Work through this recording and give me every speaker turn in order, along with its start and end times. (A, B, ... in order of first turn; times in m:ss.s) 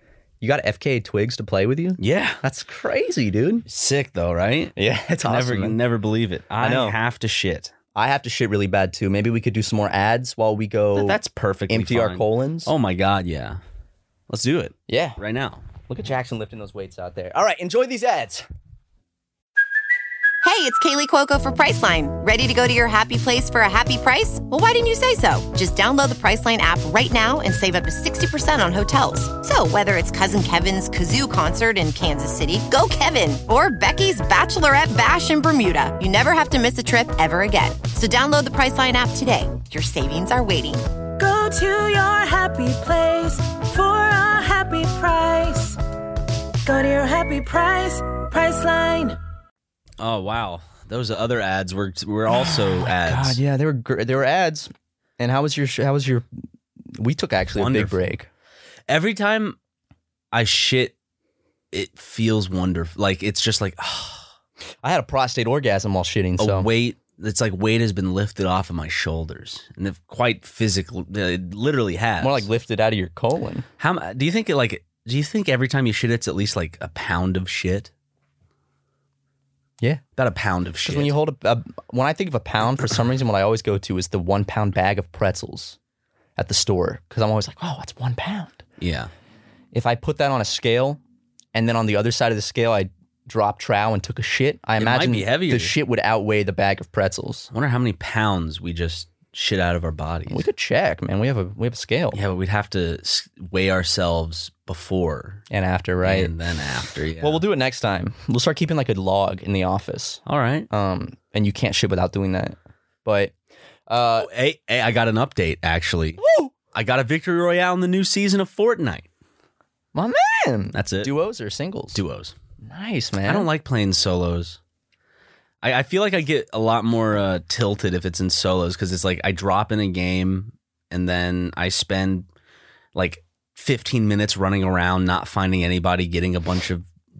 0:00.4-0:03.6 A
0:02.0-0:02.4 B
0:03.7-0:07.7 B
0:04.8-0:05.8 A
0:06.6-0:07.0 A
0:07.9-0:11.2 A
0:10.9-0:13.6 B
0:11.7-0:12.7 A
0:14.3-0:15.6 B
0:14.9-0:15.2 A
0:15.9-0:18.4 A
0:20.4-0:40.8 C
0:41.2-0:45.8 D
0:46.6-0:49.2 D
0:50.0-0:53.4 B
0:52.3-0:56.2 A
0:56.9-0:58.3 A
0:57.5-0:58.0 B
0:58.9-0:59.6 B
1:00.3-1:00.9 B
1:01.7-1:04.2 B
1:04.8-1:06.7 A
1:06.4-1:12.4 B
1:12.2-1:13.6 A
1:13.8-1:17.9 B
1:20.2-1:21.2 B
1:20.8-1:25.8 A
1:26.4-1:28.6 A
1:28.8-1:29.1 B
1:29.7-1:31.0 A
1:31.5-1:37.5 A
1:34.8-1:35.7 B
1:37.5-1:40.4 B
1:40.3-1:42.2 A
1:42.1-1:45.4 B
1:45.5-1:46.3 A
1:46.0-1:47.4 B
1:47.2-1:53.3 A
1:50.2-1:50.7 B
1:53.9-1:54.3 A
1:54.2-1:56.2 B
1:56.2-1:56.5 A
1:56.7-1:59.0 B
1:59.9-2:02.0 A
2:00.7-2:01.1 B
2:01.9-2:02.3 B
2:02.6-2:03.5 A
2:03.2-2:04.6 B
2:05.6-2:12.2 B
2:12.9-2:16.8 B